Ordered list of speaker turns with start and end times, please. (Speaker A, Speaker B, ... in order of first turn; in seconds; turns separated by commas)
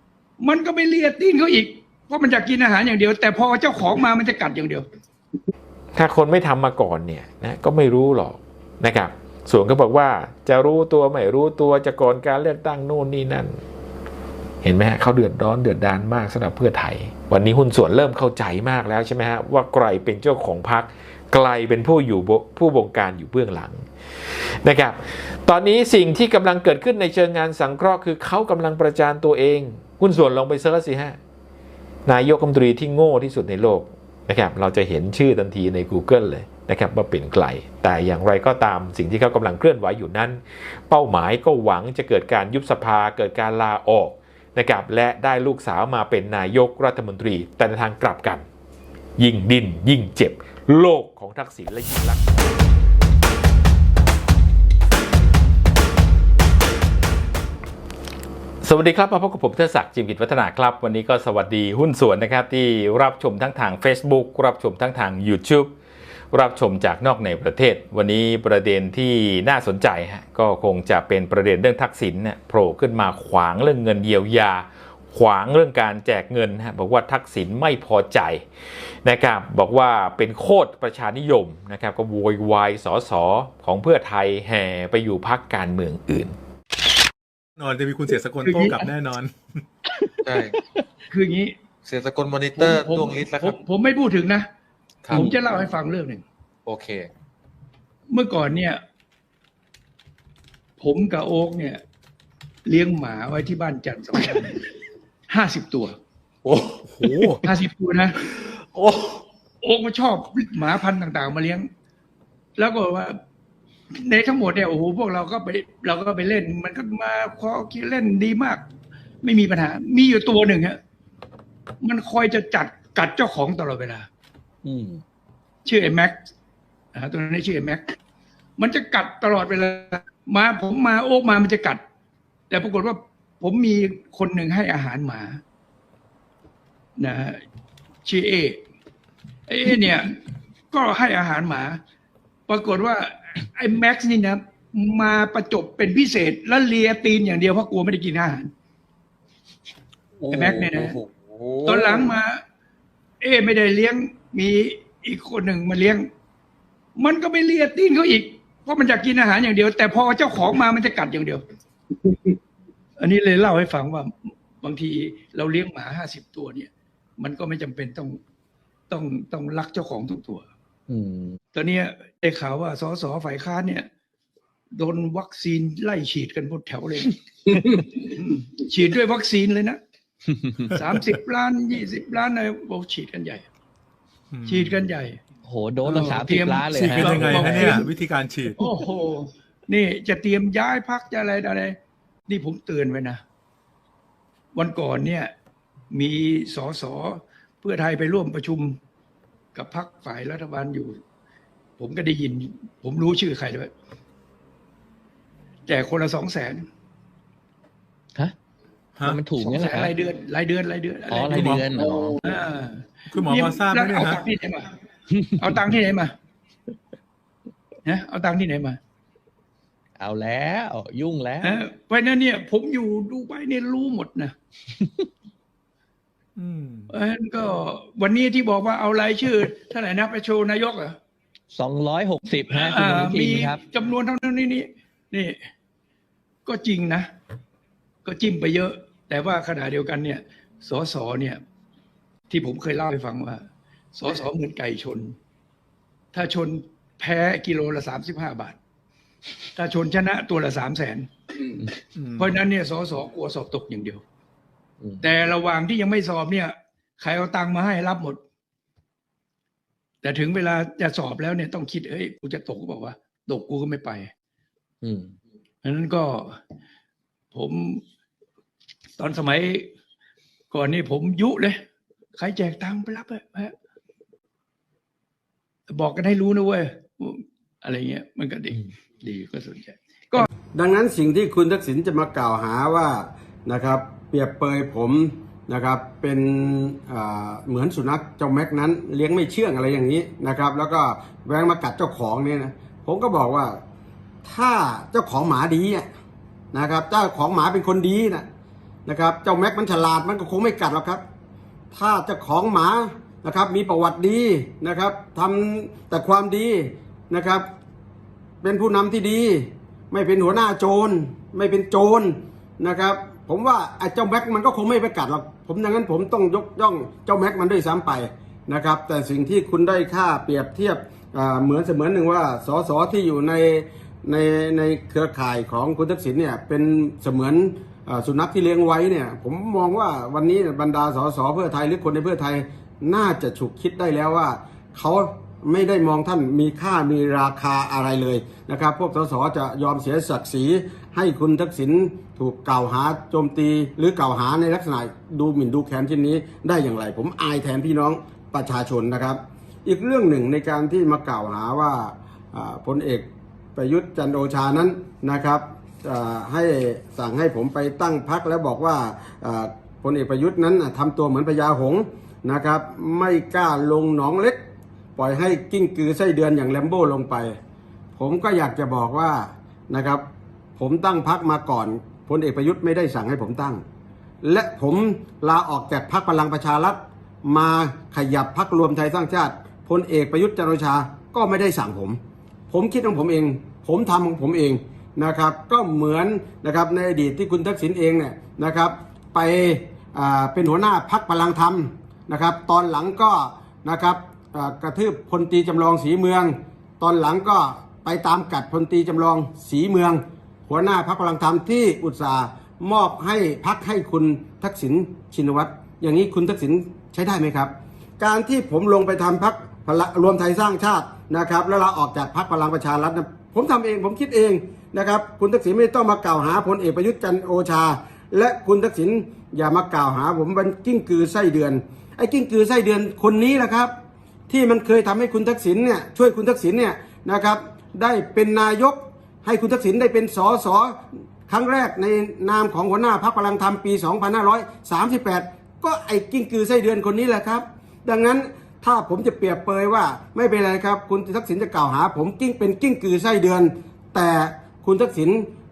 Speaker A: 0.4-4.8, Speaker B: 6.0-13.6, Speaker B: 14.6-23.8, Speaker B: 24.6-31.2, Speaker B: 32.1-48.4, Speaker B: 49.2-52.5, Speaker B: 58.6-65.7, Speaker B: 66.3-78.4, Speaker B: 79.0-86.3, Speaker C: 87.6-89.3, Speaker A: 88.4-88.9, Speaker D: 90.2-90.5, Speaker A: 91.1-91.5, Speaker D: 91.8-93.5, Speaker A: 92.5-94.5, Speaker A: 95.1-96.2, Speaker D: 96.7-97.1, Speaker A: 98.1-98.8, Speaker A: 100.8-101.8, Speaker A: 102.7-104.6, Speaker A: 105.3-106.0, Speaker C: 107.0-107.4, Speaker A: 107.4-108.2, Speaker A: 109.6-111.7, Speaker A: 112.6-113.2, Speaker A: 113.9-118.6, Speaker A: 119.2-120.8, Speaker A: 121.8-124.1, Speaker E: 124.6-125.0, Speaker A: 125.6-126.2, Speaker A: 126.9-127.9, Speaker A: 128.6-131.8, Speaker A: 132.5-135.4, Speaker A: 137.0-137.4, Speaker A: 138.0-138.6, Speaker A: 139.5-140.2, Speaker A: 140.7-141.8, Speaker A: 142.5-148.5, Speaker A: 150.3-151.0, Speaker D: 150.6-151.9, Speaker A: 151.6-152.4, Speaker A: 153.2-156.1, Speaker A: 157.0-161.4, Speaker A: 163.0-168.2, Speaker A: 168.9-170.5, Speaker E: 170.9-171.4, Speaker A: 171.5-173.9, Speaker A: 174.7-179.8, Speaker A: 180.6-183.4, Speaker C: 184.3-184.8, Speaker A: 184.5-185.2, Speaker E: 185.4-187.6, Speaker A: 185.8-187.9, Speaker C: 186.8-188.6, Speaker A: 188.6-191.8, Speaker A: 192.3-193.2, Speaker A: 194.5-195.3, Speaker A: 195.9-198.8, Speaker A: 199.5-201.0, Speaker A: 201.8-203.7, Speaker A: 205.7-206.7, Speaker C: 209.0-209.2, Speaker E: 209.0-209.9, Speaker A: 209.3-214.6, Speaker E: 211.1-212.2, Speaker C: 211.3-211.7, Speaker C: 213.1-214.2, Speaker E: 215.1-215.5, Speaker A: 215.4-216.1, Speaker A: 217.8-218.8, Speaker E: 220.0-221.6, Speaker A: 221.4-224.3, Speaker C: 226.4-226.9, Speaker A: 226.9-231.0, Speaker E: 231.5-233.6, Speaker A: 232.5-235.4, Speaker A: 236.4-237.1, Speaker A: 238.0-241.4, Speaker A: 242.3-245.1, Speaker A: 246.1-248.6, Speaker A: 249.5-254.0, Speaker C: 251.9-252.3, Speaker A: 255.0-258.2, Speaker A: 260.0-264.1, Speaker E: 264.8-265.1, Speaker A: 265.6-266.4, Speaker A: 267.3-267.8, Speaker A: 269.0-269.7, Speaker A: 270.5-271.6, Speaker A: 272.1-273.5, Speaker A: 275.7-280.3, Speaker F: 280.5-293.6, Speaker F: 294.2-295.9, Speaker F: 296.5-298.2, Speaker F: 298.9-301.0, Speaker F: 301.7-307.4, Speaker F: 308.4-364.4, Speaker F: 364.9-367.4, Speaker F: 367.9-370.0, Speaker F: 370.6-373.6, Speaker F: 374.2-382.0, Speaker F: 382.5-423.7, Speaker F: 424.3-430.8, Speaker F: 431.3-445.3